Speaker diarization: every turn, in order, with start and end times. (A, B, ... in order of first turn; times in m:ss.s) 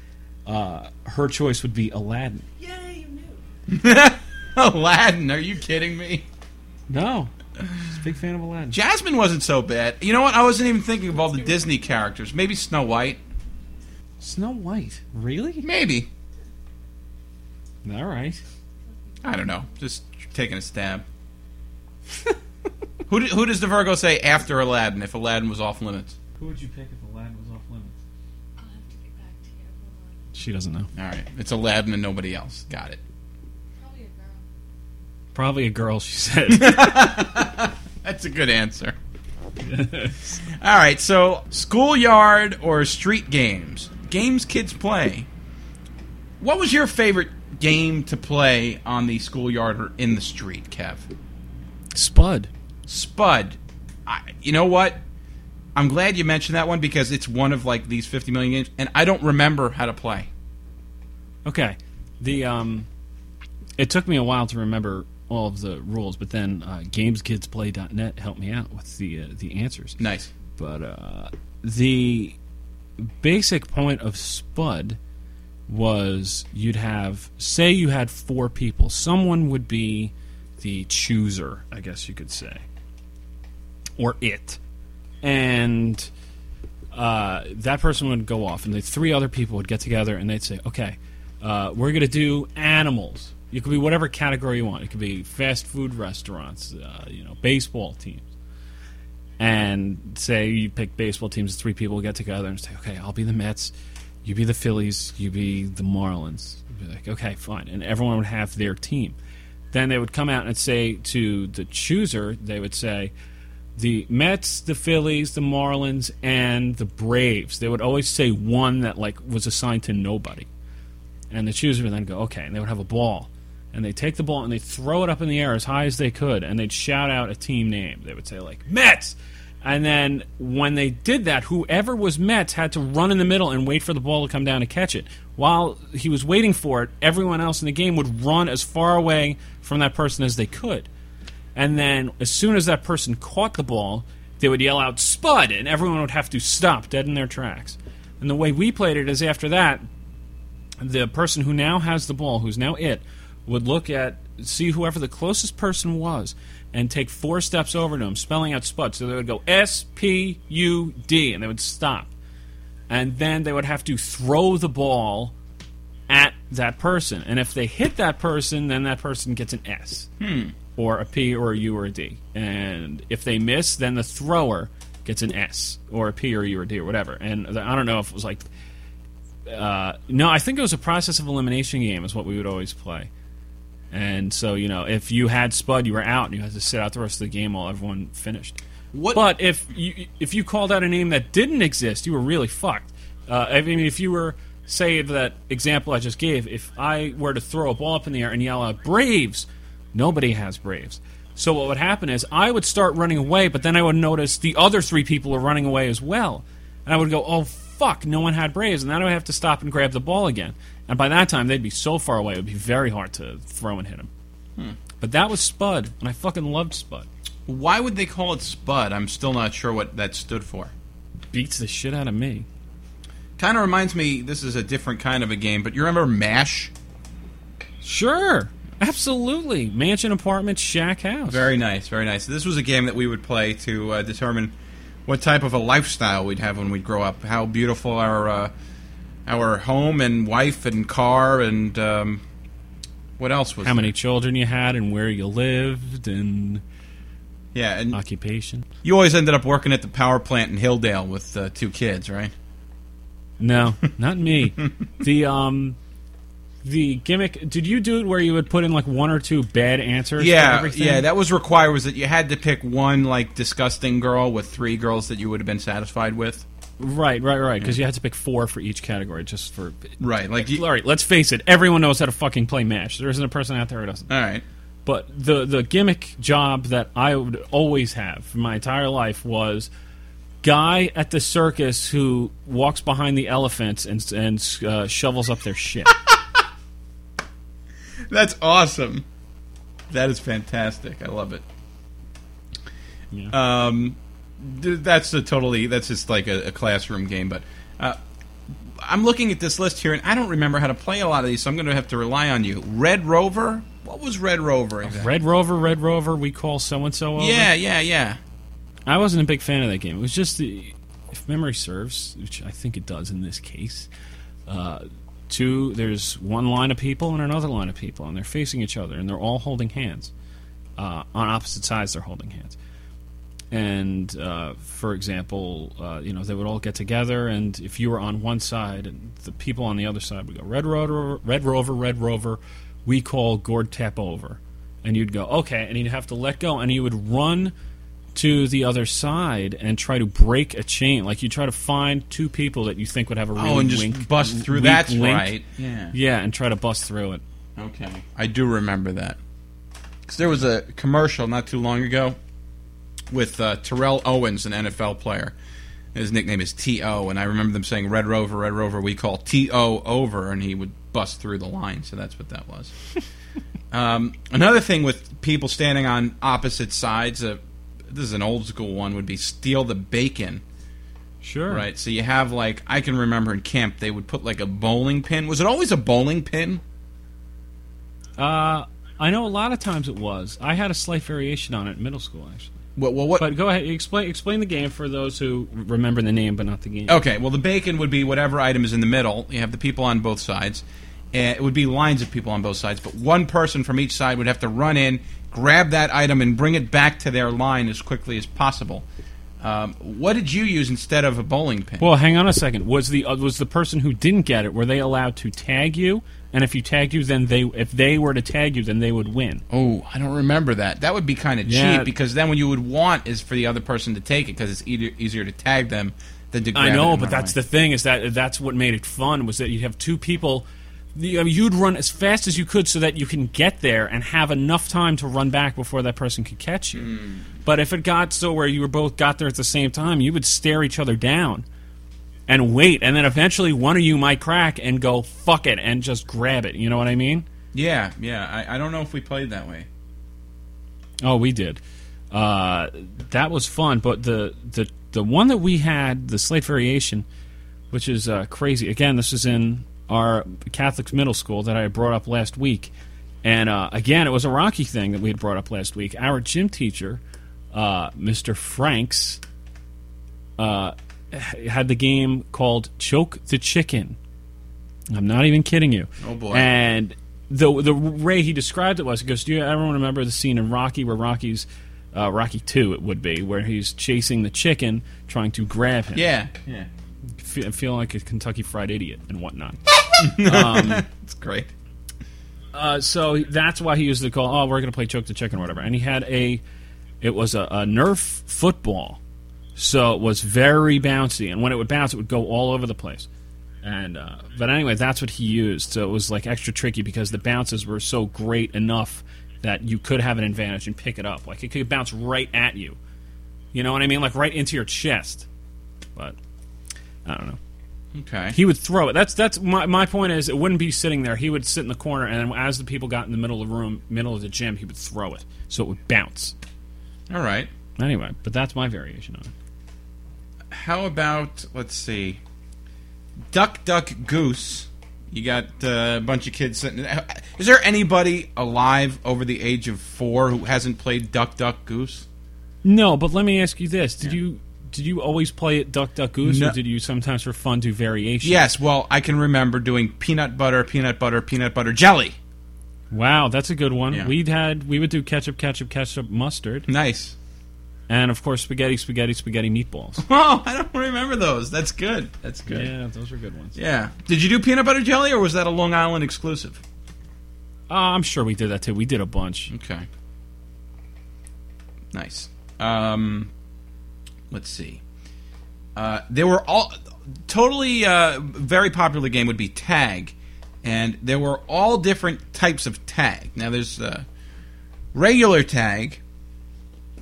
0:00.4-0:02.5 A
0:02.6-0:03.4 B
0:03.7-0:06.2 C
0:06.9-0:08.8 A
0:08.7-0:13.2 C
0:14.2-0:15.6 A
0:15.6-0:16.1 C
0:17.8-0:18.4 A
0:18.8-0:19.9 B
0:19.2-0:21.0 C
0:23.1-0:26.2 C
0:26.4-0:28.0 A
0:28.6-0:30.3 B
0:30.3-0:30.9 A
0:30.9-0:33.0 C
0:33.8-0:34.4 B
0:35.3-0:37.2 A
0:36.5-0:39.0 C
0:39.6-0:40.4 A
0:40.4-0:45.3 C
0:46.4-0:51.1 C
0:51.9-0:52.5 A
0:52.9-0:55.0 C
0:55.7-1:00.3 C
1:01.4-1:02.9 A
1:03.8-1:10.0 A
1:10.0-1:10.3 C
1:10.5-1:12.4 A
1:13.0-1:15.0 A
1:15.7-1:22.6 A
1:24.0-1:24.6 A
1:25.2-1:26.1 A
1:26.9-1:38.2 A
1:39.4-1:49.2 A
1:49.7-1:53.1 A
1:53.8-2:00.5 A
2:01.3-2:20.9 A
2:21.6-2:29.9 A
2:30.8-2:42.1 A
2:42.9-2:45.3 A
2:46.1-2:50.1 A
2:50.2-2:50.5 C
2:50.8-2:58.4 A
2:59.5-3:03.1 A
3:03.9-3:08.6 A
3:08.9-3:09.2 C
3:09.1-3:34.1 A
3:35.0-3:37.1 A
3:37.5-3:40.7 C
3:41.3-3:42.4 A
3:43.4-3:46.7 C
3:47.8-3:51.5 A
3:51.3-3:54.5 C
3:55.0-3:58.5 C
3:59.2-4:02.2 C
4:03.2-4:03.9 C
4:03.6-4:06.6 A
4:07.5-4:08.0 C
4:07.9-4:08.6 A
4:08.8-4:12.3 C
4:13.4-4:15.8 A
4:16.6-4:21.0 A
4:20.2-4:26.4 C
4:26.8-4:34.1 A
4:30.0-4:30.6 C
4:34.1-4:34.4 C
4:34.8-4:39.7 A
4:40.4-4:45.9 A
4:48.1-4:49.0 C
4:49.9-4:51.4 C
4:53.3-4:58.0 C
4:58.8-5:05.1 C
5:04.8-5:07.5 A
5:07.2-5:08.2 C
5:08.9-5:13.9 A
5:14.5-5:20.1 A
5:20.8-5:22.6 A
5:23.5-5:37.5 A
5:38.1-5:45.4 A
5:43.3-5:45.9 C
5:45.9-5:47.2 A
5:47.6-5:49.2 C
5:50.1-5:52.2 C
5:53.1-5:55.3 C
5:55.9-6:02.7 C
6:03.7-6:10.4 C
6:11.2-6:11.7 A
6:11.5-6:16.6 C
6:18.2-6:22.6 A
6:22.8-6:23.3 C
6:23.2-6:27.0 A
6:26.9-6:38.8 C
6:39.4-6:41.9 C
6:41.8-6:49.4 A
6:49.5-6:57.4 C
6:51.4-6:51.9 A
6:56.5-7:06.9 A
7:06.7-7:07.3 C
7:07.4-7:11.4 A
7:12.3-7:17.2 A
7:17.5-7:19.7 C
7:21.0-7:27.0 A
7:27.7-7:32.7 A
7:33.2-7:39.2 A
7:40.4-7:44.0 A
7:44.9-7:56.1 A
7:46.0-7:46.5 C
7:55.9-7:56.7 C
7:57.2-8:00.8 A
8:00.0-8:01.5 C
8:02.5-8:06.4 A
8:07.0-8:09.0 A
8:09.6-8:13.1 A
8:13.6-8:22.8 A
8:23.5-8:25.2 A
8:27.0-8:27.4 A
8:27.9-8:28.4 C
8:28.3-8:36.3 A
8:37.1-8:37.5 C
8:37.8-8:39.3 A
8:40.5-8:42.2 C
8:43.3-8:52.0 C
8:52.6-8:58.4 A
8:56.2-8:56.6 C
8:58.2-9:02.2 C
9:02.9-9:06.7 A
9:06.7-9:07.2 C
9:07.9-9:10.0 A
9:10.0-9:12.7 C
9:12.5-9:13.6 A
9:13.6-9:16.6 C
9:17.7-9:19.5 A
9:19.5-9:19.9 C
9:21.9-9:23.3 C
9:24.3-9:24.8 C
9:25.8-9:26.7 C
9:27.3-9:34.0 C
9:34.9-9:36.0 C